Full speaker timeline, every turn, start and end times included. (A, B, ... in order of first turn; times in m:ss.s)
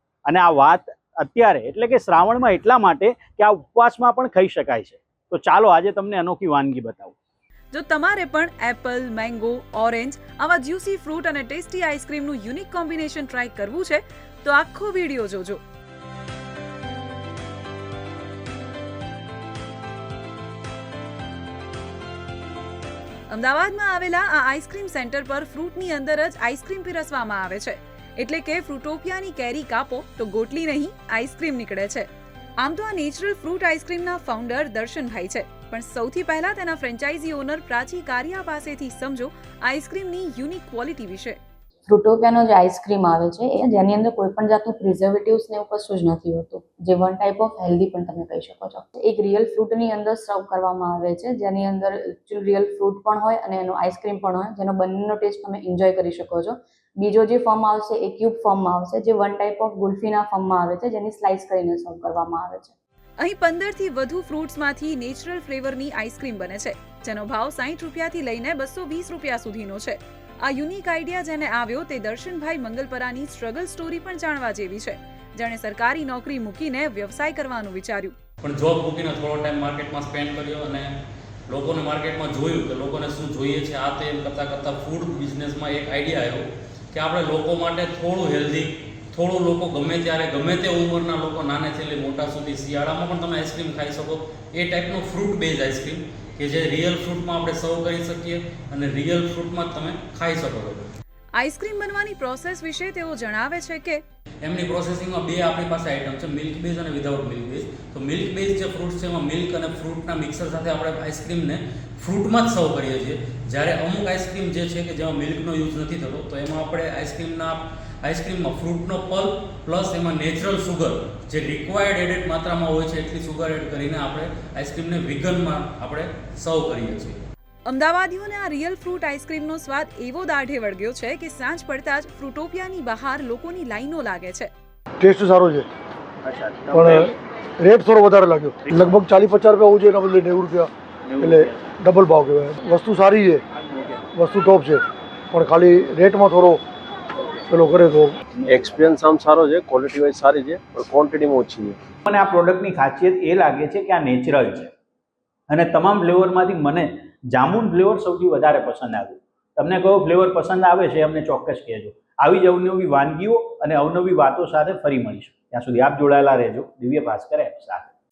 0:00.2-0:07.2 A
0:07.7-0:15.6 B
0:23.3-0:32.1 B
0:32.6-0:41.4 B
0:41.9-1:02.7 C
1:03.2-1:18.1 B
1:18.4-1:20.9 D
1:21.5-1:40.9 D
1:41.3-1:44.0 B
1:44.4-2:07.2 D
2:07.6-2:14.5 B
2:15.0-2:15.7 E
2:16.2-2:17.1 A
2:16.7-2:23.4 E
2:21.0-2:21.7 A
2:23.6-2:24.0 A
2:24.1-2:26.6 E
2:27.5-2:28.1 E
2:28.5-2:31.8 F
2:28.5-2:28.8 A
2:32.0-2:34.7 A
2:35.5-2:47.9 A